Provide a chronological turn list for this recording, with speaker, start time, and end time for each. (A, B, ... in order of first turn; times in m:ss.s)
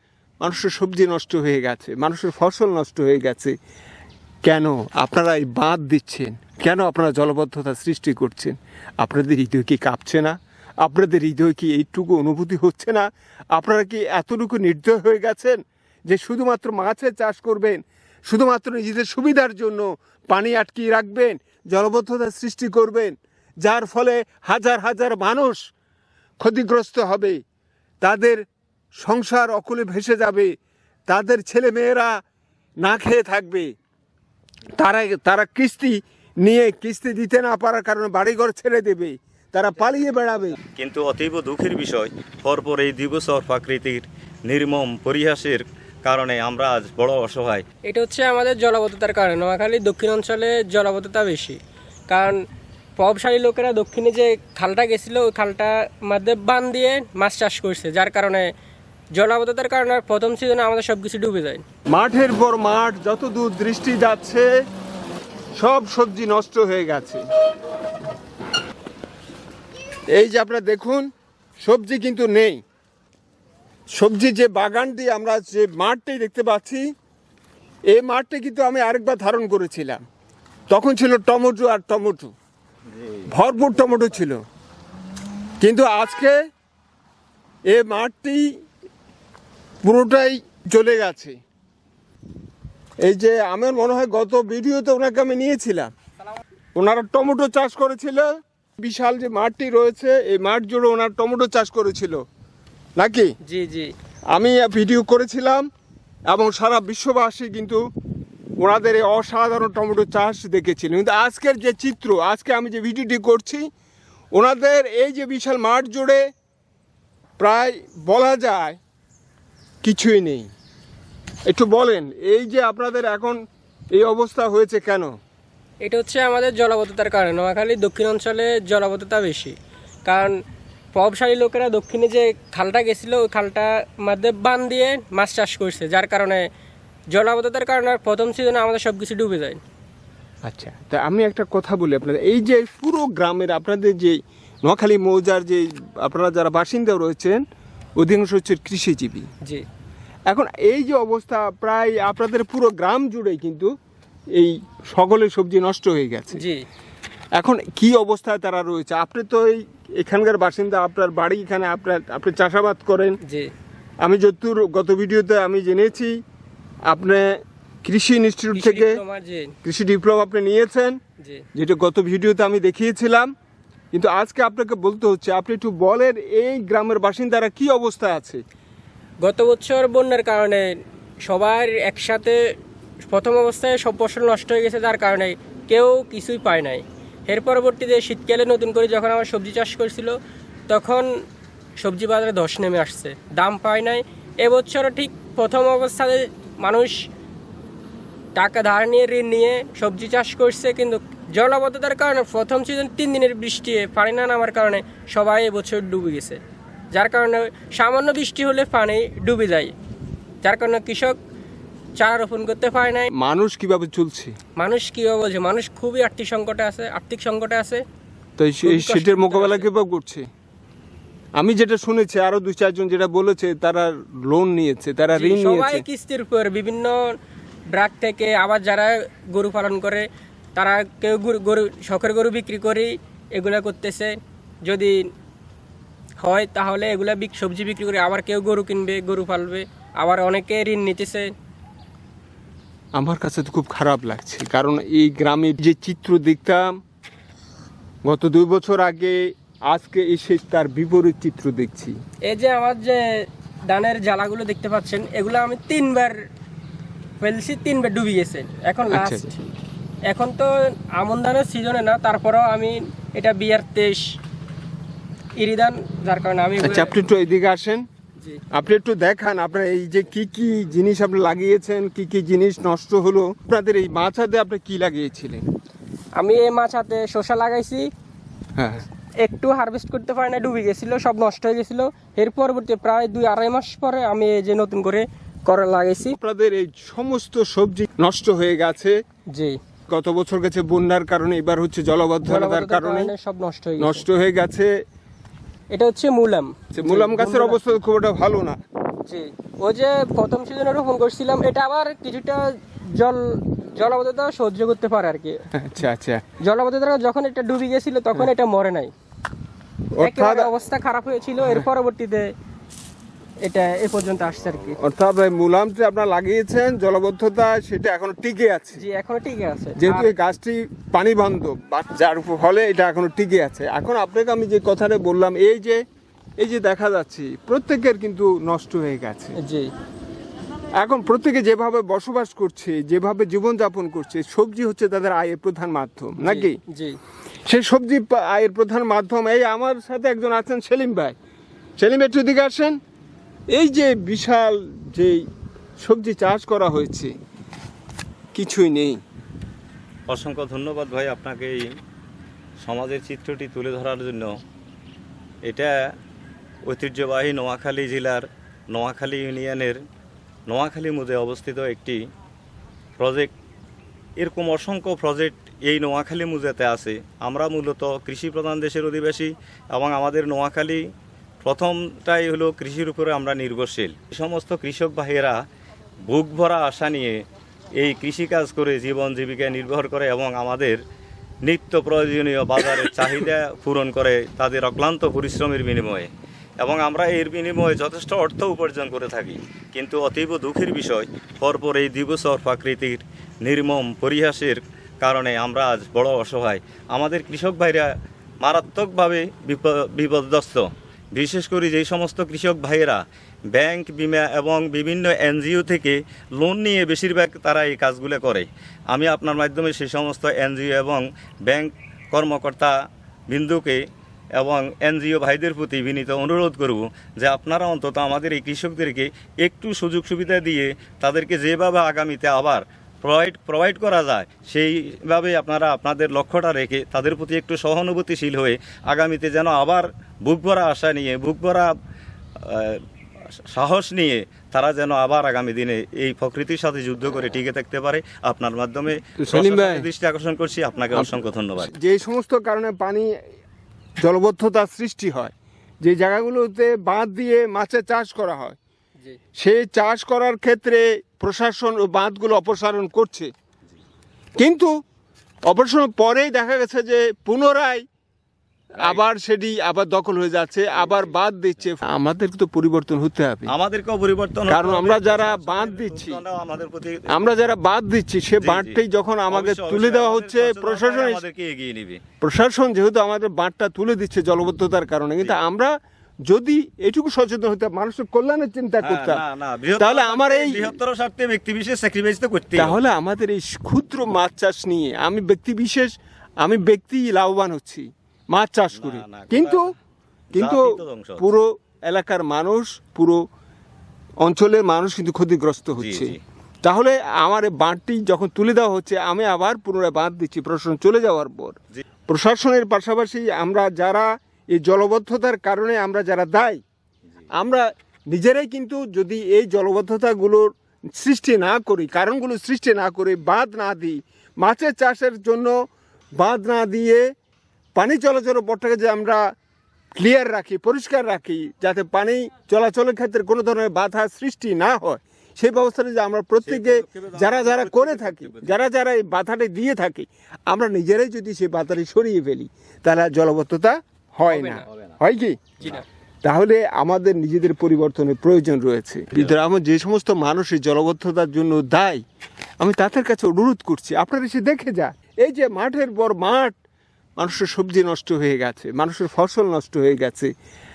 0:00.4-0:03.5 A
0:04.4-0:25.6 A
0:26.4-0:27.4 A
0:28.0-0:28.4 A
0:29.0-0:30.5 A
0:31.1-0:32.1 A
0:32.8-0:33.7 A
0:34.8-0:40.6 A
0:40.7-0:47.6 B
0:47.9-0:51.6 C
0:52.1-0:52.4 C
0:53.0-0:58.5 C
0:59.2-1:01.6 C
1:01.9-1:04.5 A
1:05.6-1:07.2 A
1:10.2-1:11.0 A
1:11.6-1:12.6 A
1:14.0-1:16.8 A
1:17.9-1:20.0 A
1:20.7-1:22.3 A
1:23.3-1:24.4 A
1:25.6-1:26.4 A
1:27.7-1:28.5 A
1:29.8-1:31.4 A
1:33.0-1:35.9 A
1:36.8-1:42.2 A
1:43.0-1:43.3 A
1:43.4-1:43.9 C
1:44.3-1:45.6 A
1:46.3-1:47.8 A
1:48.6-1:53.6 A
1:54.3-1:56.2 A
1:57.4-1:58.8 A
1:59.8-2:00.5 A
2:01.5-2:03.4 A
2:03.9-2:05.1 A
2:05.8-2:10.3 C
2:10.9-2:16.4 C
2:17.1-2:19.6 C
2:20.4-2:27.4 A
2:28.0-2:29.3 A
2:30.3-2:33.7 A
2:34.4-2:36.4 A
2:36.4-2:36.6 C
2:37.4-2:43.2 A
2:43.2-2:43.5 C
2:44.0-2:46.2 A
2:46.9-2:49.0 A
2:48.5-2:49.5 C
2:49.6-2:51.0 A
2:51.6-2:53.3 A
2:53.9-2:58.4 A
2:59.2-3:00.6 C
3:01.2-3:02.4 C
3:03.1-3:10.1 C
3:10.7-3:11.1 C
3:11.8-3:16.9 C
3:18.4-3:26.4 C
3:26.9-3:29.7 C
3:30.4-3:31.2 C
3:32.0-3:33.1 C
3:33.2-3:34.3 A
3:34.6-3:37.8 C
3:38.4-3:40.3 A
3:38.6-3:39.7 C
3:41.4-3:45.8 A
3:45.1-3:47.0 C
3:47.7-3:54.1 C
3:54.6-3:55.0 C
3:56.2-4:01.3 C
4:03.0-4:06.7 A
4:08.0-4:09.2 A
4:09.7-4:11.9 A
4:12.3-4:13.0 C
4:13.7-4:16.1 C
4:17.2-4:19.5 C
4:18.9-4:19.3 A
4:20.1-4:24.0 C
4:25.4-4:26.9 C
4:26.6-4:27.8 A
4:28.5-4:35.4 A
4:36.2-4:37.9 C
4:38.6-4:38.8 A
4:39.2-4:46.2 C
4:46.2-4:49.0 A
4:49.9-4:53.1 A
4:52.2-4:54.0 C
4:53.8-4:54.7 A
4:55.7-4:57.6 C
4:56.7-4:58.6 A
4:59.0-5:05.4 C
5:05.5-5:06.2 A
5:06.4-5:08.9 C
5:09.9-5:10.5 A
5:10.0-5:12.3 C
5:13.4-5:14.8 C
5:14.8-5:18.8 A
5:18.8-5:20.1 C
5:19.8-5:25.8 A
5:26.4-5:29.4 A
5:29.4-5:29.7 C
5:30.8-5:36.6 A
5:36.2-5:37.0 C
5:37.5-5:41.1 A
5:41.8-5:42.8 A
5:43.5-5:45.2 A
5:45.8-5:47.1 A
5:48.3-5:49.0 A
5:50.1-5:51.7 B
5:52.6-5:54.4 B
5:55.4-5:55.7 B
5:56.7-5:59.8 B
6:00.5-6:02.0 B
6:03.0-6:03.3 B
6:04.2-6:10.8 B
6:11.4-6:15.4 B
6:16.1-6:17.2 B
6:17.8-6:20.8 B
6:21.4-6:26.1 B
6:26.6-6:37.9 B
6:38.4-6:52.7 B
6:53.3-6:53.8 B
6:54.4-7:11.7 B
7:12.4-7:21.7 B
7:19.2-7:19.9 A
7:20.9-7:23.1 A
7:24.0-7:28.6 A
7:29.4-7:33.3 A
7:34.4-7:34.7 A
7:35.5-7:37.8 A
7:38.8-7:43.5 A
7:40.8-7:41.1 B
7:43.5-7:47.3 B
7:44.5-7:46.2 A
7:47.1-7:51.2 A
7:48.4-7:48.8 B
7:49.3-7:52.0 B
7:52.2-7:55.7 A
7:56.3-7:59.2 A
7:58.8-8:02.8 B
7:59.8-8:00.7 A
8:02.6-8:05.9 A
8:06.4-8:09.6 A
8:08.8-8:09.6 B
8:10.3-8:13.2 A
8:10.4-8:11.3 B
8:14.2-8:21.6 A
8:15.8-8:16.2 B
8:22.1-8:26.6 A
8:27.4-8:35.5 A
8:36.2-8:37.0 A
8:37.8-8:39.2 A
8:40.0-9:02.0 A
8:46.4-8:48.6 B
8:54.3-8:54.6 C
9:02.6-9:06.5 A
9:07.2-9:10.3 A